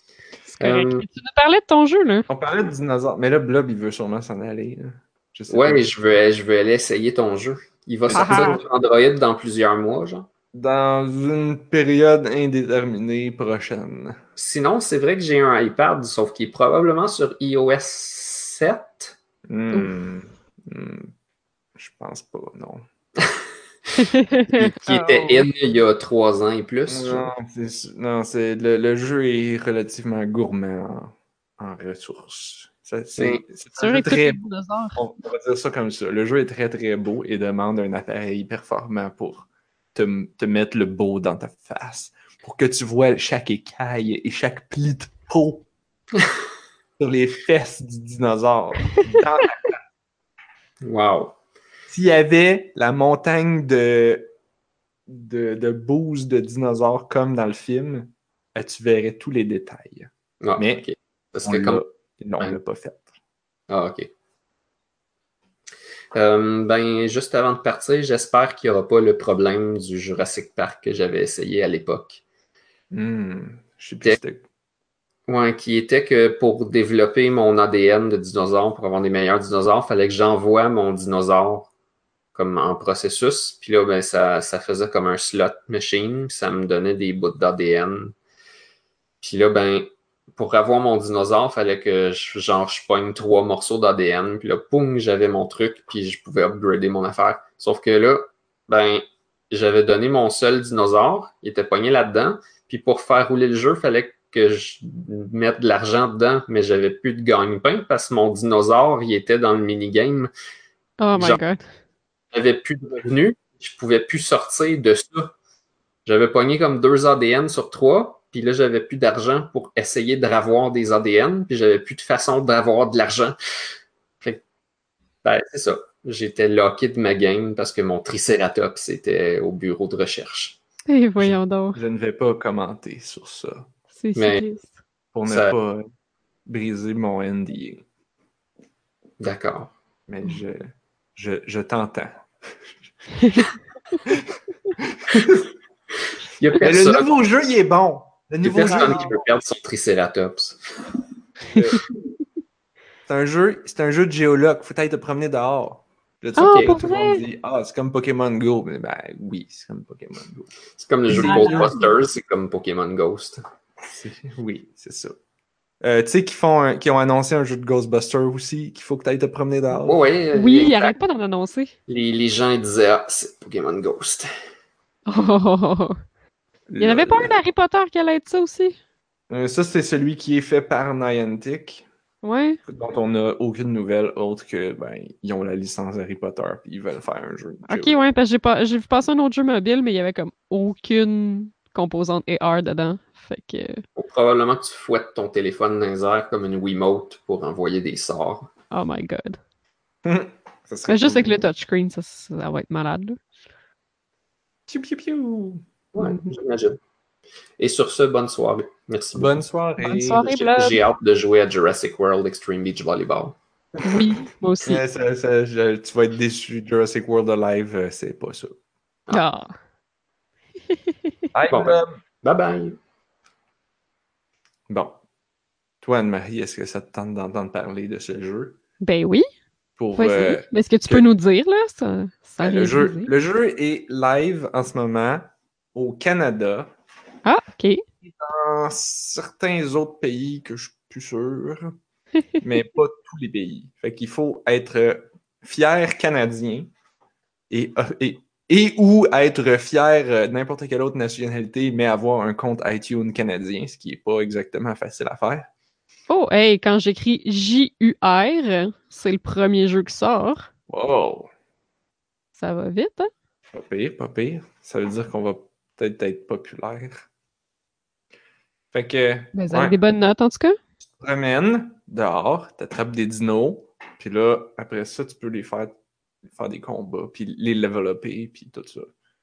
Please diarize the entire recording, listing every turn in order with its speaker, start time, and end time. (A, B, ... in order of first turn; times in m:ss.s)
0:00.5-0:02.3 A
0:00.6-0:01.0 B
0:02.3-0:05.9 C
0:05.5-0:10.3 B
0:08.1-0:08.5 C
0:08.1-0:08.6 A
0:10.5-0:14.2 C
0:14.4-0:19.2 B
0:19.5-0:21.1 C
0:21.8-0:22.8 C
0:24.0-0:25.5 A
0:24.6-0:27.3 B
0:26.9-0:34.4 C
0:33.2-0:33.4 B
0:33.8-0:35.0 A
0:34.9-0:45.7 C
0:47.0-0:49.8 C
0:50.8-0:51.4 B
0:51.9-0:54.3 C
0:55.1-1:00.8 C
1:00.4-1:01.8 B
1:01.4-1:03.0 C
1:03.7-1:04.1 B
1:06.1-1:12.2 B
1:12.9-1:14.4 C
1:15.3-1:21.7 B
1:22.3-1:28.1 B
1:29.2-1:50.3 B
1:51.0-1:51.6 A
1:52.3-1:55.3 B
1:56.0-2:03.4 B
2:05.2-2:10.6 B
2:10.9-2:11.8 A
2:11.2-2:13.7 C
2:14.0-2:14.7 A
2:14.2-2:14.4 B
2:15.1-2:15.8 C
2:15.3-2:15.5 B
2:16.4-2:17.8 C
2:19.2-2:19.7 B
2:20.1-2:20.6 C
2:21.2-2:22.7 C
2:23.2-2:23.4 A
2:24.0-2:25.5 C
2:26.4-2:27.1 B
2:26.6-2:29.1 C
2:28.4-2:31.0 B
2:28.6-2:29.1 A
2:31.5-2:31.8 C
2:33.0-2:40.5 C
2:36.4-2:37.2 A
2:36.4-2:36.8 B
2:40.8-2:43.4 B
2:41.1-2:41.8 C
2:41.1-2:41.8 A
2:43.8-2:45.1 C
2:45.8-2:50.0 C
2:49.8-2:51.0 B
2:50.3-2:51.7 A
2:51.9-2:54.3 B
2:55.1-2:56.0 A
2:56.7-2:57.3 C
2:56.8-2:58.8 A
2:59.3-3:01.8 C
3:02.2-3:02.6 A
3:02.6-3:08.0 C
3:07.7-3:13.8 A
3:14.0-3:18.5 B
3:18.7-3:19.4 A
3:20.0-3:21.4 C
3:20.9-3:23.2 A
3:24.7-3:25.6 C
3:25.9-3:26.3 A
3:25.9-3:26.8 B
3:27.6-3:29.4 B
3:29.1-3:30.2 C
3:29.8-3:30.8 A
3:30.2-3:33.4 B
3:33.8-3:34.1 C
3:33.8-3:34.8 A
3:34.6-3:38.6 C
3:39.1-3:39.5 A
3:41.3-3:42.0 C
3:41.5-3:42.8 B
3:44.7-3:45.0 C
3:45.8-3:48.6 C
3:48.8-3:49.2 A
3:49.8-3:51.0 C
3:50.0-3:53.1 A
3:52.4-3:56.7 C
3:57.2-3:57.8 A
3:58.1-4:01.7 C
4:02.4-4:06.7 C
4:07.5-4:15.5 C
4:16.1-4:20.5 A
4:20.7-4:21.3 C
4:22.4-4:23.1 A
4:23.5-4:27.1 C
4:28.7-4:29.8 C
4:29.3-4:30.6 A
4:31.0-4:35.7 C
4:36.3-4:38.9 C